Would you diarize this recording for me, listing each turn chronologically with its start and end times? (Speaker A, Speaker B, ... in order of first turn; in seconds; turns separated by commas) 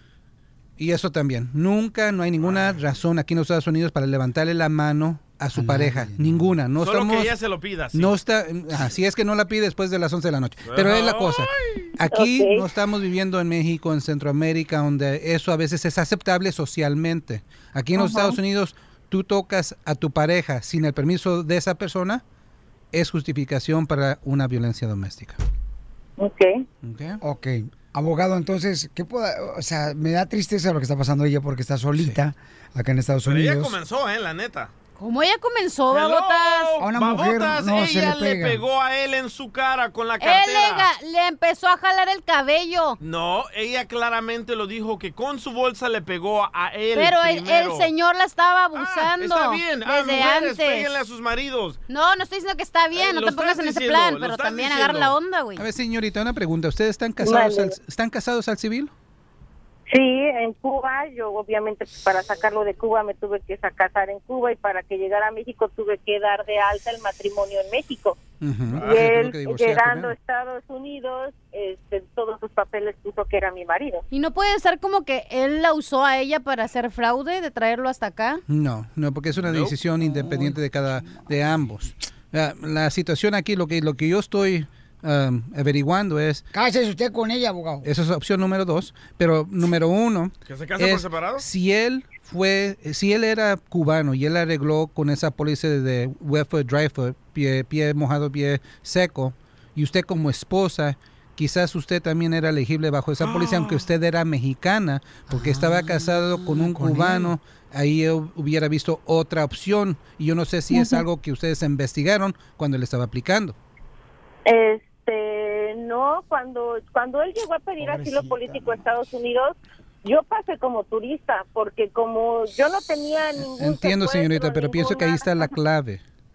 Speaker A: 0.8-7.4, Speaker B: 5.5-6.5, Speaker C: 6.8-8.1, Speaker A: 7.9-22.2, Speaker C: 10.6-11.5, Speaker D: 12.1-12.6, Speaker A: 22.9-25.4, Speaker D: 26.2-26.6, Speaker A: 26.8-27.2, Speaker B: 27.2-33.8, Speaker C: 33.2-34.7, Speaker E: 35.0-36.8, Speaker C: 35.9-40.9, Speaker B: 36.8-38.6, Speaker E: 40.2-43.0, Speaker C: 43.0-47.9, Speaker E: 46.9-50.9, Speaker C: 48.7-51.8, Speaker E: 51.9-55.6, Speaker C: 52.9-55.1, Speaker A: 55.6-58.9, Speaker D: 57.2-57.7, Speaker D: 59.9-68.2, Speaker A: 68.4-70.1, Speaker C: 68.7-69.0, Speaker D: 68.8-74.0, Speaker E: 74.1-78.4, Speaker A: 78.5-86.5, Speaker C: 79.4-79.7, Speaker B: 80.0-81.7, Speaker B: 86.5-87.9, Speaker A: 87.8-113.5, Speaker C: 90.5-91.4, Speaker C: 103.2-103.8, Speaker B: 105.3-107.3, Speaker D: 114.5-125.5, Speaker B: 117.8-118.7, Speaker A: 123.4-126.0